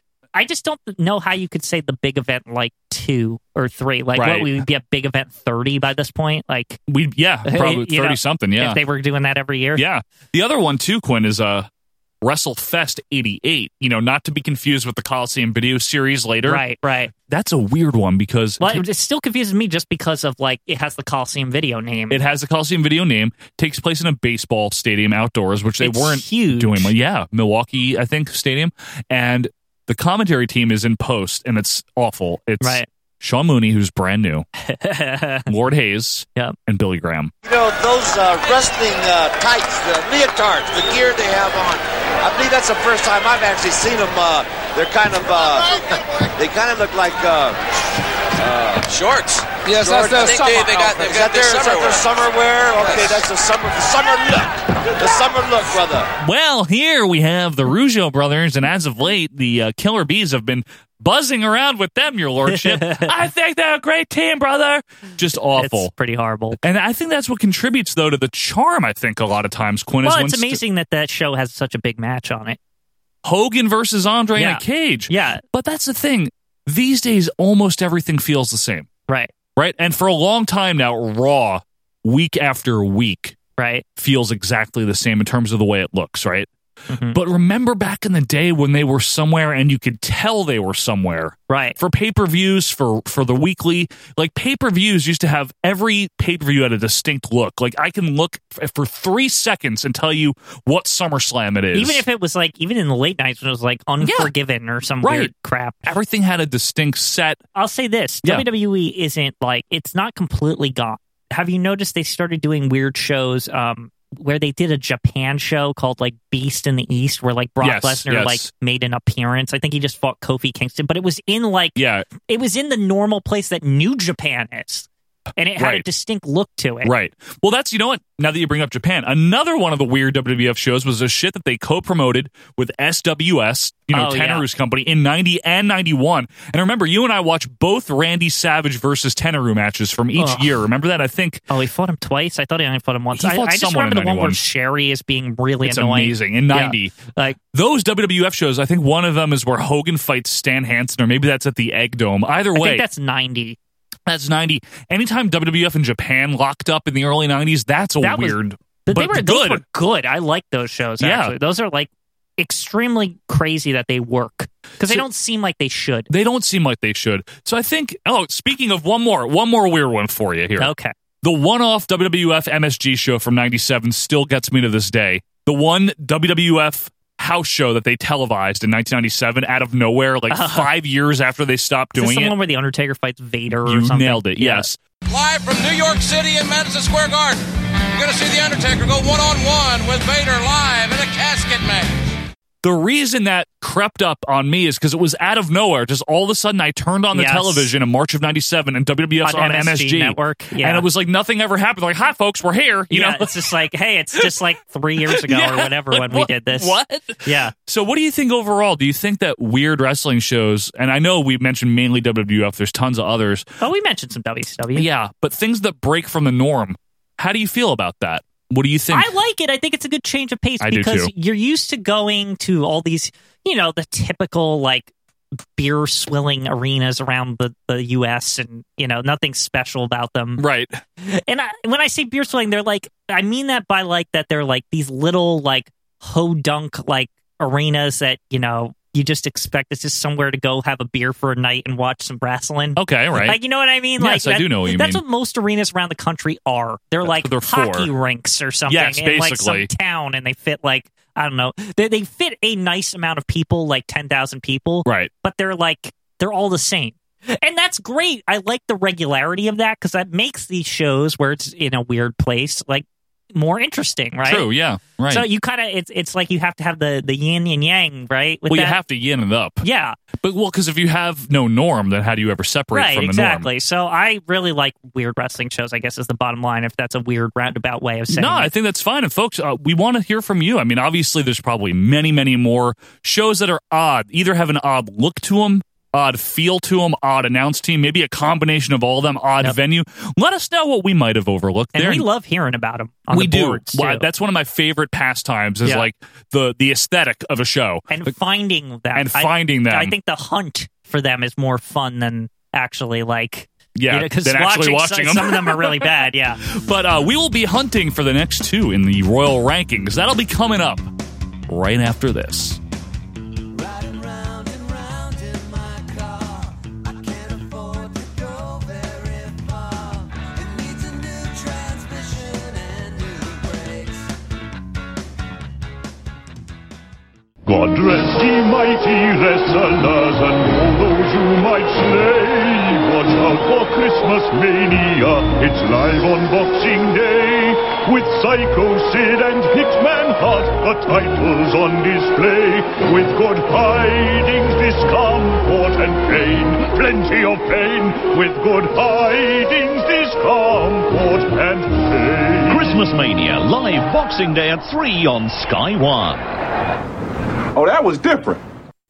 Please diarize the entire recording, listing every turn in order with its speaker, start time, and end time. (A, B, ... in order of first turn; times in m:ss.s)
0:00.4-0:06.8 A
0:04.2-0:04.6 B
0:06.9-0:08.8 B
0:07.5-0:09.8 A
0:09.8-0:11.7 B
0:12.2-0:16.6 B
0:16.4-0:17.1 A
0:17.3-0:18.8 B
0:18.6-0:22.2 A
0:22.1-0:34.4 B
0:25.8-0:26.9 A
0:32.6-0:32.9 A
0:34.7-0:35.5 A
0:35.5-0:37.3 B
0:37.4-0:45.8 C
0:46.4-0:47.6 C
0:48.4-0:56.1 C
0:49.7-0:52.0 D
0:56.2-1:05.9 B
1:02.5-1:03.1 A
1:05.6-1:06.6 A
1:06.6-1:10.6 B
1:10.0-1:12.6 A
1:13.2-1:18.9 B
1:14.4-1:15.4 A
1:19.6-1:23.4 B
1:23.6-1:23.8 A
1:24.0-1:26.5 B
1:26.9-1:27.2 A
1:27.1-1:42.0 B
1:31.5-1:31.8 A
1:41.7-1:46.0 A
1:44.0-1:44.3 B
1:45.0-1:45.3 B
1:45.8-1:47.4 B
1:47.6-2:06.9 A
1:57.6-1:58.5 B
2:01.8-2:02.1 B
2:05.6-2:05.8 B
2:06.8-2:21.4 B
2:13.9-2:14.4 A
2:20.2-2:20.6 A
2:21.5-2:27.4 A
2:23.1-2:24.4 B
2:25.6-2:27.0 B
2:27.5-2:32.8 B
2:32.5-2:33.6 A
2:34.1-2:39.6 B
2:38.0-2:46.1 A
2:41.0-2:41.4 B
2:46.1-3:02.4 B
2:50.6-2:50.9 A
3:00.3-3:00.7 A
3:02.0-3:04.7 A
3:03.6-3:04.8 B
3:05.1-3:07.4 D
3:08.0-3:12.0 D
3:12.6-3:23.3 B
3:17.1-3:17.7 A
3:19.2-3:20.8 A
3:22.9-3:27.5 A
3:25.0-3:33.5 B
3:33.6-3:34.9 A
3:34.8-3:39.1 B
3:38.9-3:44.9 A
3:40.6-3:41.1 B
3:45.6-3:50.4 A
3:50.4-3:50.8 B
3:51.0-4:24.5 A
4:02.8-4:03.4 B
4:04.0-4:05.0 B
4:07.0-4:07.9 B
4:08.7-4:09.7 B
4:14.9-4:15.1 B
4:24.2-4:25.3 B
4:25.1-4:28.8 A
4:28.5-4:29.6 B
4:29.6-4:30.0 A
4:30.2-4:33.5 B
4:32.7-4:38.5 A
4:38.1-4:52.1 B
4:51.8-4:54.1 A
4:53.1-4:58.1 B
4:57.9-5:06.4 A
4:58.9-4:59.9 B
5:03.8-5:10.9 B
5:11.5-5:12.6 B
5:27.5-5:52.8 E
5:52.5-5:56.3 F